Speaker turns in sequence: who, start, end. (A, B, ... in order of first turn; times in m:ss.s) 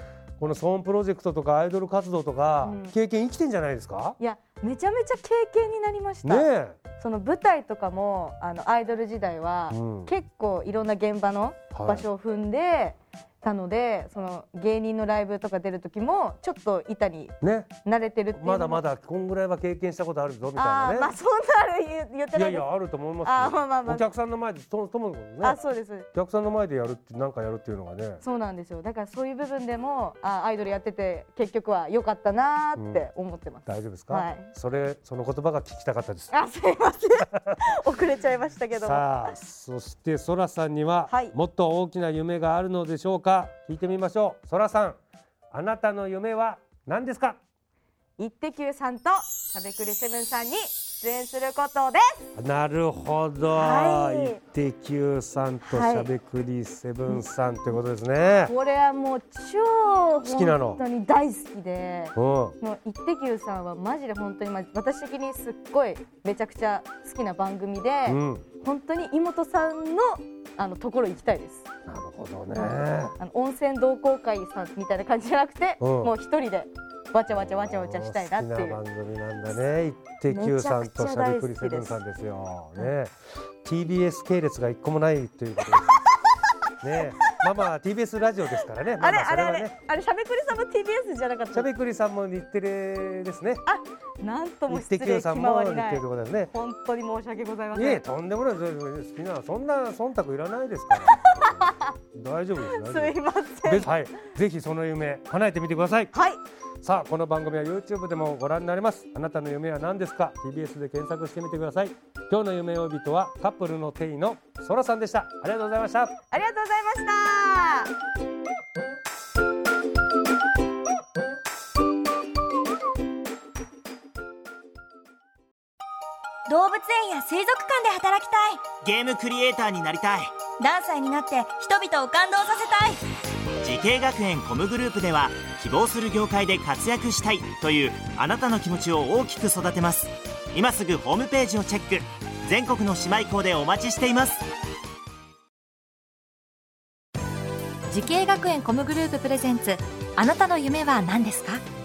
0:00.4-0:04.2 A
0:02.6-0:02.9 B
0:04.2-0:18.8 B
0:06.2-0:06.8 A
0:09.7-0:10.1 A
0:11.7-0:12.1 A
0:17.4-0:17.7 A
0:18.3-0:21.1 A
0:20.6-0:22.7 B
0:22.3-0:25.6 A
0:23.2-0:24.1 B
0:25.4-0:26.1 B
0:26.1-0:28.2 A
0:28.2-0:34.5 B
0:32.8-0:33.0 A
0:33.7-0:36.3 A
0:36.3-0:39.4 B
0:38.8-0:45.0 A
0:41.1-0:41.4 B
0:45.5-0:47.4 A
0:48.2-0:52.3 B
0:52.4-0:58.5 A
0:53.5-0:54.4 B
0:55.6-0:56.1 B
0:58.4-1:11.7 B
1:00.2-1:00.8 A
1:02.2-1:02.6 A
1:08.1-1:08.4 A
1:11.9-1:13.2 A
1:13.2-1:18.8 B
1:15.8-1:16.1 A
1:17.3-1:23.1 A
1:20.3-1:22.0 B
1:23.6-1:26.0 A
1:26.8-1:29.8 A
1:29.0-1:31.7 B
1:31.5-1:33.6 A
1:33.7-1:38.0 B
1:34.7-1:36.5 A
1:37.7-1:46.1 A
1:41.1-1:41.8 B
1:42.6-1:43.9 B
1:46.1-1:46.4 B
1:46.8-1:56.1 A
1:56.3-1:57.9 B
2:06.5-2:08.7 C
2:08.8-2:10.4 D
2:10.6-2:13.0 C
2:13.6-2:24.5 D
2:27.9-2:31.6 E